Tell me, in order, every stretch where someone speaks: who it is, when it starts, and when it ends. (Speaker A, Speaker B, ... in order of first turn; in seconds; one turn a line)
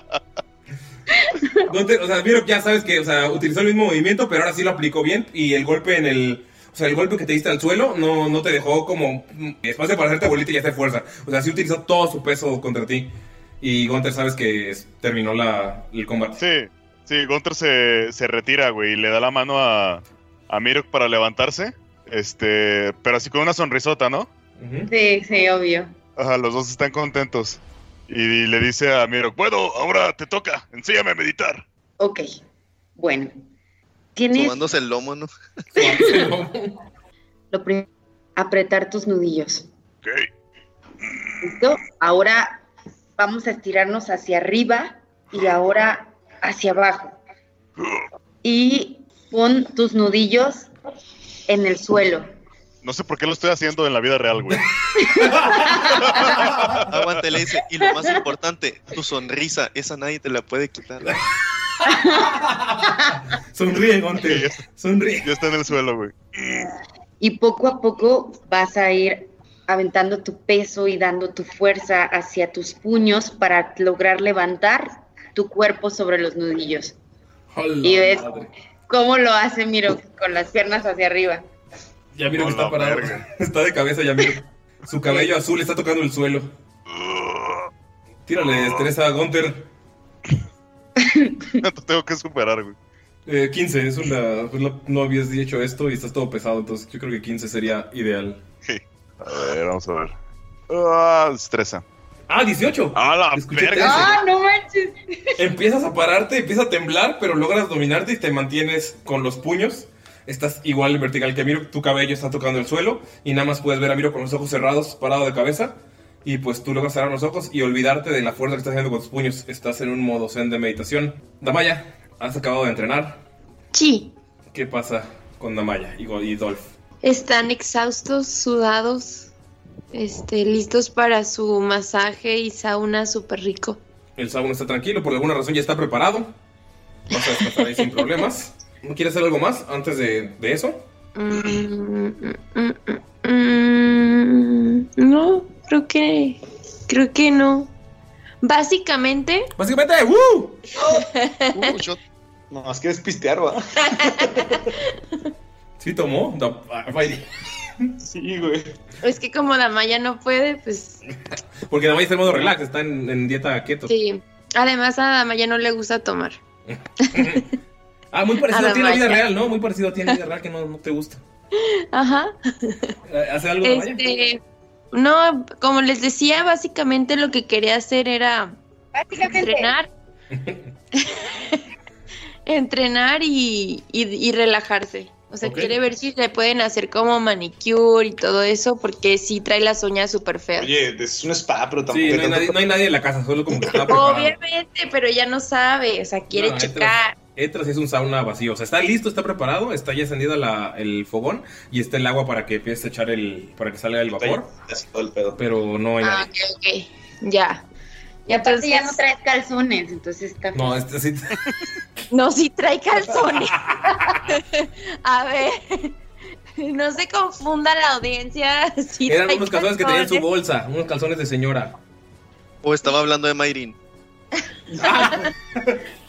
Speaker A: 1.2-1.5
Speaker B: 1.6-16.4
Speaker C: 16.4-24.3
Speaker B: 24.6-24.9
Speaker A: 24.9-25.9
Speaker C: 26.2-31.6
Speaker A: 32.0-32.3
Speaker A: 33.0-33.3
Speaker A: 34.2-34.7
Speaker D: 34.3-35.3
Speaker B: 35.8-36.8
Speaker A: 35.8-36.3
Speaker A: 37.5-39.7
Speaker A: 41.4-42.6
Speaker A: 43.2-47.2
Speaker A: 48.4-50.7
Speaker A: 51.5-52.3
Speaker C: 52.8-54.6
Speaker B: 54.8-56.8
Speaker A: 55.1-56.3
Speaker C: 55.9-56.8
Speaker D: 56.9-61.2
Speaker A: 57.8-58.1
Speaker A: 61.8-63.2
Speaker B: 61.9-65.3
Speaker C: 64.2-64.6
Speaker C: 65.2-66.6
Speaker A: 67.2-77.0
Speaker B: 77.5-78.5
Speaker A: 77.8-78.4
Speaker A: 78.9-81.4
Speaker B: 82.2-86.5
Speaker C: 82.3-83.2
Speaker C: 86.9-87.7
Speaker B: 88.3-89.7
Speaker A: 91.0-91.6
Speaker C: 91.6-92.8
Speaker B: 93.3-98.4
Speaker C: 98.7-100.2
Speaker C: 100.7-101.8
Speaker B: 102.3-104.2
Speaker C: 103.0-104.2
Speaker A: 103.8-105.1
Speaker B: 105.4-123.2
Speaker E: 123.7-124.1
Speaker B: 124.5-126.7
Speaker E: 127.0-129.3
Speaker E: 129.9-133.8
Speaker B: 134.2-136.3
Speaker B: 137.1-140.8
Speaker E: 137.2-137.7
Speaker E: 141.2-147.7
Speaker E: 148.4-149.5
Speaker B: 149.6-150.6
Speaker E: 150.9-151.7
Speaker D: 151.5-152.0
Speaker F: 152.5-154.4
Speaker E: 153.9-154.7
Speaker B: 155.8-157.3
Speaker F: 158.1-158.8
Speaker E: 159.0-161.0
Speaker B: 161.7-163.9
Speaker E: 163.9-166.4
Speaker B: 166.7-167.4
Speaker E: 167.0-167.5
Speaker B: 168.1-171.2
Speaker E: 168.4-169.2
Speaker E: 171.6-172.9
Speaker B: 173.1-174.0
Speaker E: 173.6-174.4
Speaker E: 174.9-178.6
Speaker A: 178.9-179.7
Speaker E: 179.2-179.9
Speaker B: 180.3-180.7
Speaker E: 181.0-181.6
Speaker E: 182.5-190.8
Speaker B: 185.4-185.7
Speaker F: 190.6-192.6
Speaker B: 191.9-194.4
Speaker E: 193.9-197.2
Speaker B: 196.3-204.5
Speaker F: 204.2-205.4
Speaker B: 205.4-206.3
Speaker E: 206.0-207.7
Speaker E: 208.3-209.0
Speaker A: 208.3-210.8
Speaker B: 210.5-211.4
Speaker E: 212.1-215.9
Speaker B: 213.0-214.3
Speaker E: 216.6-220.2
Speaker B: 219.1-221.8
Speaker D: 222.6-223.8
Speaker B: 224.8-225.8
Speaker E: 224.8-225.3